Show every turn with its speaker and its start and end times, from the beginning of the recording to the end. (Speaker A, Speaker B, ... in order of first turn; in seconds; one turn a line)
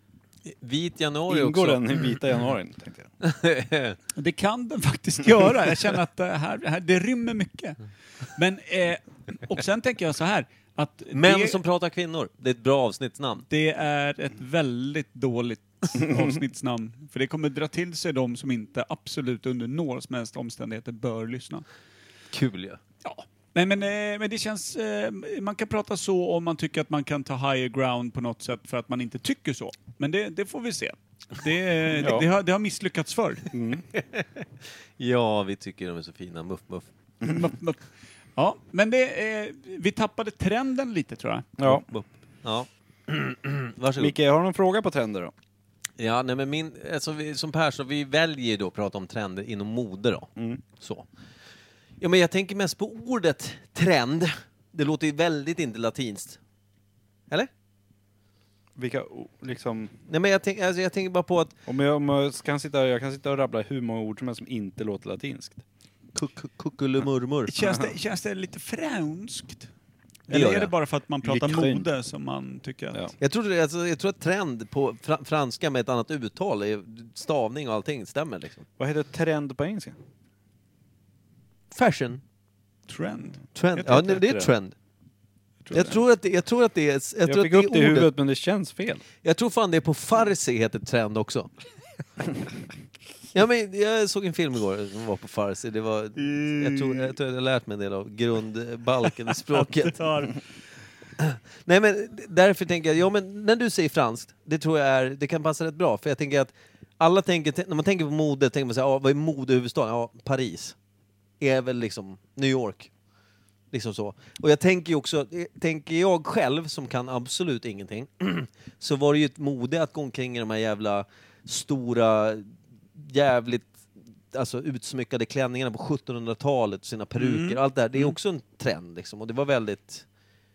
Speaker A: 0.5-2.0
Speaker B: 1.3-3.1
Speaker A: 3.2-4.0
Speaker C: 4.2-11.6
Speaker A: 11.1-13.4
Speaker C: 13.5-21.6
Speaker A: 22.3-22.8
Speaker C: 23.0-33.5
Speaker B: 32.0-32.2
Speaker B: 33.5-33.8
Speaker A: 33.9-36.9
Speaker C: 37.2-37.8
Speaker C: 38.4-41.5
Speaker B: 41.6-41.8
Speaker A: 41.6-44.1
Speaker B: 44.0-45.3
Speaker A: 46.0-51.1
Speaker B: 50.4-50.6
Speaker A: 52.0-56.4
Speaker B: 58.8-59.9
Speaker A: 60.1-61.5
Speaker B: 61.6-65.6
Speaker A: 66.1-67.5
Speaker C: 67.5-69.7
Speaker C: 70.3-73.1
Speaker A: 70.3-70.7
Speaker B: 71.2-71.9
Speaker A: 73.2-78.6
Speaker B: 78.8-80.0
Speaker A: 81.7-82.2
Speaker C: 82.9-84.2
Speaker A: 83.5-84.7
Speaker B: 83.9-84.5
Speaker C: 85.6-86.0
Speaker A: 85.7-88.1
Speaker B: 87.2-89.0
Speaker A: 89.2-91.5
Speaker A: 93.3-100.0
Speaker C: 96.2-97.1
Speaker C: 99.5-100.4
Speaker A: 101.2-110.8
Speaker A: 111.4-112.9
Speaker A: 113.7-130.1
Speaker C: 127.2-128.1